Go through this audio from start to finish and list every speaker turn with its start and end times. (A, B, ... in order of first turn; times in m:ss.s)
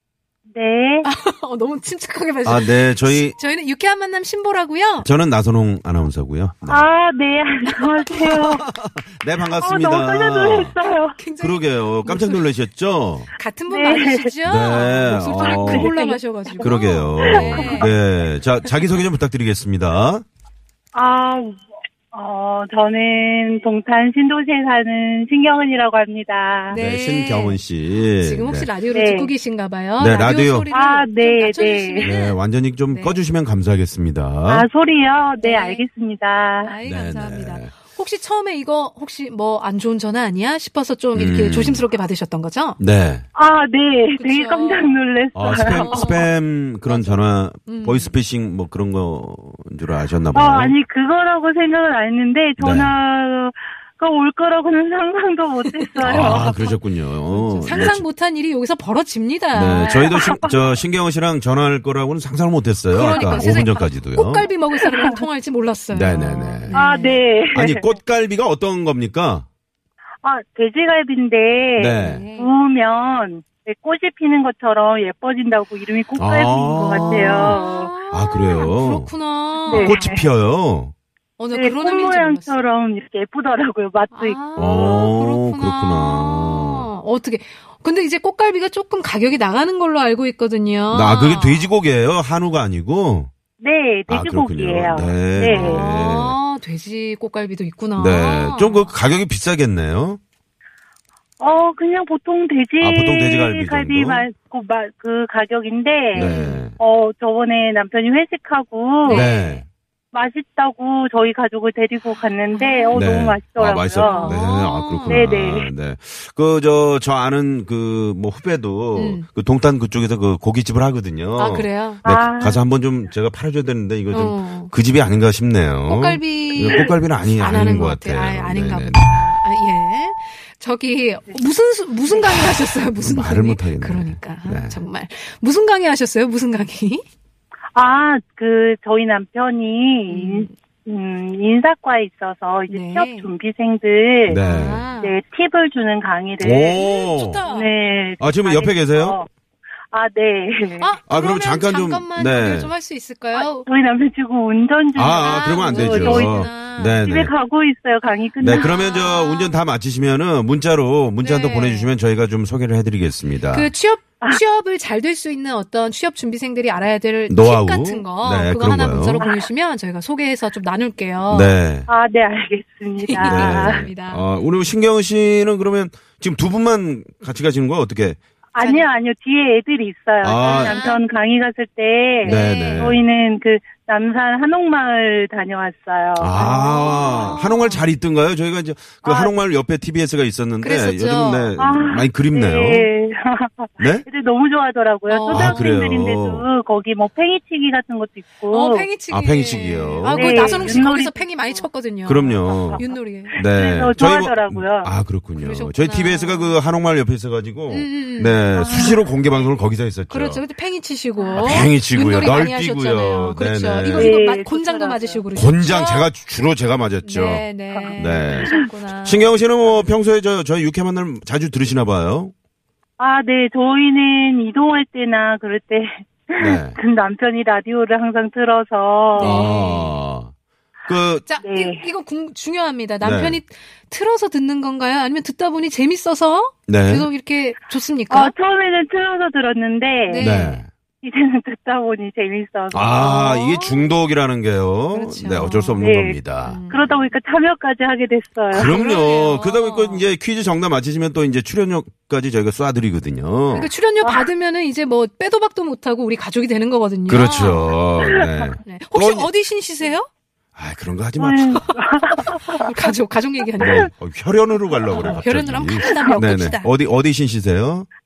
0:00.5-0:01.1 A
0:01.0-0:05.1 B
0:02.4-0:03.4 C
0:05.0-0:06.8 C
0:06.7-0:08.7 A
0:08.3-0:10.8 C
0:09.6-0:11.2 A
0:11.2-0:12.5 B
0:11.4-0:13.3 C
0:13.4-0:18.0 B
0:13.7-0:14.3 A
0:14.4-0:15.9 C
0:15.4-0:17.9 A
0:16.6-0:20.2 C
0:20.9-0:26.8 A
0:26.7-0:32.4 B
0:26.7-0:28.7 C
0:28.9-0:29.3 A
0:30.0-0:30.7 C
0:30.7-0:32.2 A
0:32.0-0:34.7 C
0:32.9-0:33.2 B
0:34.5-0:36.7 A
0:35.4-0:35.9 B
0:36.6-0:42.8 B
0:36.8-0:37.7 C
0:41.2-0:41.9 C
0:42.8-0:43.3 C
0:43.4-0:46.3 A
0:44.2-0:46.3 B
0:45.4-0:50.8 C
0:46.8-0:48.2 B
0:50.3-0:56.7 A
0:52.6-0:53.0 C
0:55.8-0:56.8 B
0:56.0-0:58.0 C
0:57.3-1:00.6 B
0:59.5-1:04.5 C
1:02.9-1:07.2 B
1:03.1-1:03.5 A
1:04.8-1:05.2 A
1:05.9-1:06.8 C
1:06.7-1:07.9 A
1:07.5-1:09.4 C
1:10.2-1:17.9 A
1:11.8-1:12.3 C
1:12.0-1:12.5 B
1:16.2-1:17.6 C
1:16.9-1:20.2 B
1:18.1-1:19.1 C
1:19.7-1:20.2 A
1:19.7-1:20.9 C
1:21.4-1:22.6 B
1:21.5-1:25.1 A
1:24.1-1:31.7 B
1:24.6-1:26.9 C
1:30.9-1:33.3 C
1:33.6-1:35.9 A
1:34.1-1:36.4 C
1:35.5-1:38.9 B
1:38.0-1:40.2 C
1:41.4-1:49.3 A
1:42.8-1:44.3 C
1:46.1-1:46.8 C
1:46.2-1:46.6 B
1:49.1-1:49.6 B
1:49.1-1:49.6 C
1:50.1-1:54.4 A
1:52.5-1:53.0 B
1:52.9-2:09.2 C
1:54.0-1:55.2 B
1:55.1-1:55.7 A
1:59.0-1:59.3 B
2:01.4-2:02.0 B
2:02.0-2:02.6 A
2:04.1-2:04.7 B
2:05.9-2:17.0 B
2:13.0-2:14.8 C
2:17.7-2:24.4 A
2:20.1-2:20.5 B
2:22.7-2:23.3 B
2:24.3-2:24.9 C
2:24.3-2:25.2 B
2:25.0-2:26.8 A
2:26.4-2:27.4 C
2:26.7-2:27.7 B
2:27.5-2:29.3 A
2:28.2-2:29.2 C
2:29.9-2:30.9 A
2:30.8-2:33.7 B
2:31.1-2:32.7 C
2:33.3-2:36.5 A
2:35.0-2:37.3 C
2:35.1-2:37.0 B
2:37.0-2:38.8 A
2:38.4-2:43.7 C
2:38.5-2:39.6 B
2:41.2-2:41.9 B
2:43.5-2:51.6 B
2:47.3-2:49.2 C
2:49.2-2:49.5 A
2:51.3-2:51.9 C
2:51.9-2:53.9 A
2:53.0-2:54.3 B
2:53.2-2:58.2 C
2:58.5-3:07.4 A
2:58.6-2:58.9 B
3:00.2-3:00.8 C
3:00.3-3:01.0 B
3:02.2-3:03.0 C
3:02.2-3:03.0 B
3:06.2-3:12.9 C
3:06.3-3:07.9 B
3:09.0-3:09.4 A
3:10.6-3:11.6 B
3:11.6-3:18.9 A
3:15.1-3:15.7 B
3:15.3-3:16.5 C
3:18.5-3:23.4 B
3:19.1-3:20.8 C
3:20.0-3:21.7 A
3:22.0-3:30.4 C
3:22.4-3:24.9 A
3:25.4-3:26.6 B
3:27.7-3:29.0 B
3:30.1-3:36.1 B
3:31.2-3:31.5 A
3:31.4-3:34.2 C
3:33.9-3:35.2 A
3:35.3-3:37.4 C
3:37.0-3:39.9 B
3:37.7-3:38.5 A
3:38.0-3:38.5 C
3:39.0-3:42.3 C
3:43.0-3:49.5 A
3:46.4-3:46.8 C
3:49.1-3:50.0 B
3:49.2-3:50.3 C
3:50.9-3:51.3 C
3:51.3-3:58.3 B
3:51.4-3:51.8 A
3:53.0-3:53.4 C
3:56.7-3:57.1 C
3:58.1-4:00.3 A
4:00.1-4:00.6 B
4:00.2-4:00.7 C
4:01.0-4:03.3 A
4:02.7-4:06.6 C
4:03.0-4:03.9 B
4:04.9-4:05.8 B
4:05.8-4:08.7 A
4:06.4-4:07.1 B
4:08.5-4:13.7 C
4:08.5-4:10.1 B
4:13.5-4:17.8 B
4:17.1-4:19.3 C
4:18.6-4:20.1 B
4:20.6-4:21.6 C
4:21.2-4:22.6 A
4:22.5-4:23.9 B
4:23.6-4:27.9 C
4:24.9-4:26.7 B
4:25.8-4:26.3 A